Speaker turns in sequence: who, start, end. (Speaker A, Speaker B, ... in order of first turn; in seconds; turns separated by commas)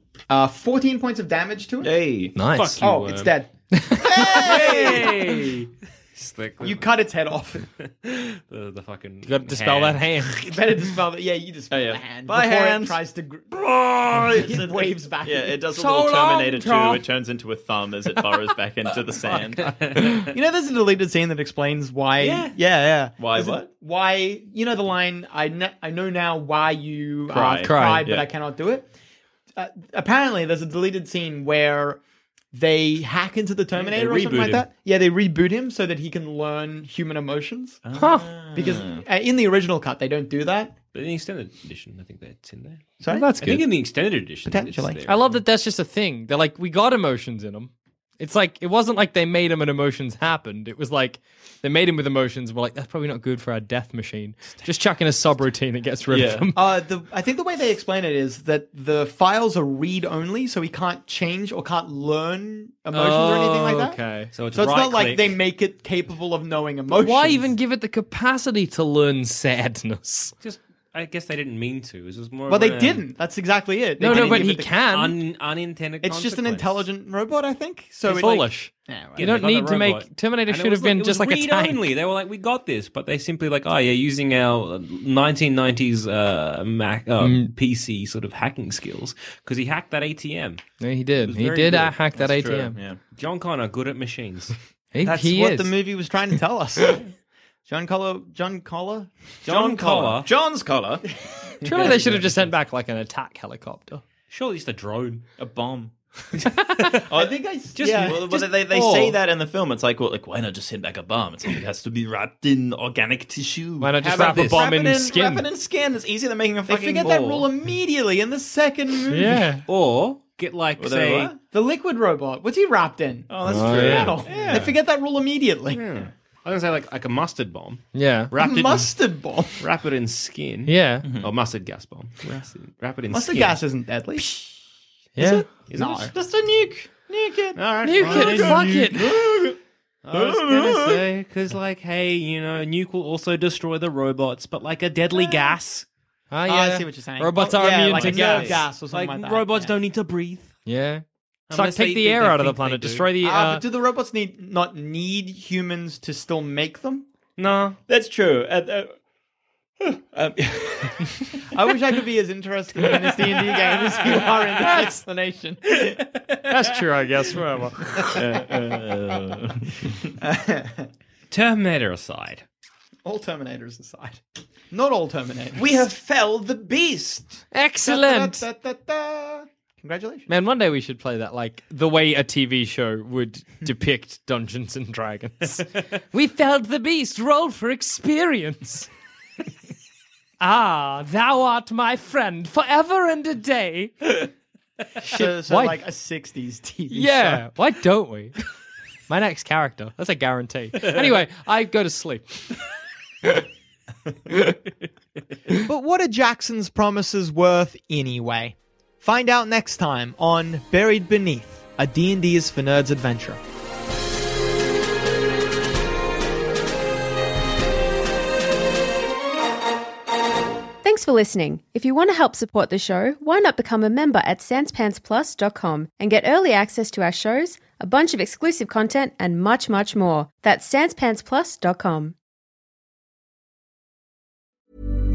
Speaker A: 0.3-2.1, Speaker B: 1.8-2.4, Speaker C: 2.4-2.8, Speaker D: 2.4-3.4, Speaker A: 2.8-5.1, Speaker C: 3.7-4.2, Speaker B: 4.1-5.1, Speaker D: 4.2-6.8, Speaker A: 6.6-7.7, Speaker D: 7.8-10.1, Speaker C: 9.2-10.6, Speaker A: 10.4-13.7, Speaker B: 11.7-13.0, Speaker B: 13.5-19.9, Speaker A: 14.2-15.6, Speaker C: 15.7-17.0, Speaker D: 19.6-20.1, Speaker C: 19.9-20.3, Speaker A: 20.3-28.9, Speaker D: 22.2-22.5, Speaker B: 23.2-23.7, Speaker B: 27.3-28.3, Speaker C: 27.4-28.1, Speaker A: 29.6-32.0, Speaker A: 32.5-37.8, Speaker D: 33.8-34.6, Speaker B: 37.8-39.0, Speaker C: 38.0-38.3, Speaker A: 38.5-40.7, Speaker D: 40.9-42.8, Speaker A: 43.0-43.3, Speaker C: 43.1-43.6, Speaker D: 43.4-45.4, Speaker A: 44.5-45.0, Speaker C: 45.0-56.6, Speaker B: 56.1-56.5, Speaker A: 56.5-64.0, Speaker C: 62.9-64.3, Speaker D: 63.7-65.4, Speaker A: 64.5-67.5, Speaker C: 66.9-70.3, Speaker D: 70.4-73.0, Speaker A: 72.5-74.8, Speaker C: 74.0-75.1, Speaker D: 74.0-76.8, Speaker A: 76.0-79.2, Speaker C: 78.0-81.8, Speaker D: 79.2-90.6, Speaker C: 87.2-87.5, Speaker C: 90.8-92.8, Speaker B: 91.3-93.0, Speaker D: 93.2-94.5, Speaker C: 94.9-95.7, Speaker A: 95.0-97.0, Speaker A: 97.7-99.1, Speaker D: 99.4-100.3, Speaker B: 99.5-101.0, Speaker C: 101.6-104.0, Speaker D: 104.3-105.2, Speaker B: 105.4-105.9, Speaker D: 106.3-107.1, Speaker C: 106.5-107.0, Speaker A: 107.1-108.4, Speaker D: 107.8-109.2, Speaker B: 108.0-117.5, Speaker C: 113.8-115.5, Speaker D: 114.0-114.7, Speaker A: 116.7-119.5, Speaker C: 119.1-119.7, Speaker D: 119.7-121.3, Speaker B: 120.8-121.4, Speaker A: 121.4-125.9, Speaker B: 123.3-124.7, Speaker C: 123.4-124.2, Speaker D: 124.3-124.7, Speaker D: 125.7-128.9, Speaker C: 127.9-128.3, Speaker A: 128.4-129.6, Speaker D: 129.6-133.6, Speaker C: 130.7-131.1, Speaker B: 131.0-131.3, Speaker A: 133.1-134.6, Speaker C: 135.2-135.4, Speaker A: 135.2-136.1, Speaker D: 135.7-136.1, Speaker B: 135.8-139.6, Speaker D: 137.6-139.1, Speaker C: 137.8-139.1, Speaker D: 140.0-145.8, Speaker B: 140.1-141.1, Speaker C: 146.3-148.6, Speaker A: 146.5-149.7, Speaker B: 147.5-148.6, Speaker D: 148.9-150.5, Speaker C: 150.7-153.6, Speaker D: 151.5-153.1, Speaker A: 153.2-157.1, Speaker D: 157.4-157.8, Speaker B: 157.9-158.9, Speaker B: 159.8-161.4, Speaker A: 161.5-165.9, Speaker C: 166.5-168.0, Speaker B: 168.1-169.6, Speaker A: 170.2-170.9, Speaker D: 171.3-172.4, Speaker A: 173.0-175.8, Speaker B: 175.6-177.4, Speaker C: 177.5-178.4, Speaker A: 177.8-180.3, Speaker C: 180.3-188.9, Speaker C: 190.4-194.3, Speaker A: 195.0-197.5, Speaker C: 195.0-195.8, Speaker C: 196.9-198.4, Speaker C: 199.1-202.4, Speaker A: 205.5-213.4, Speaker E: 220.8-232.1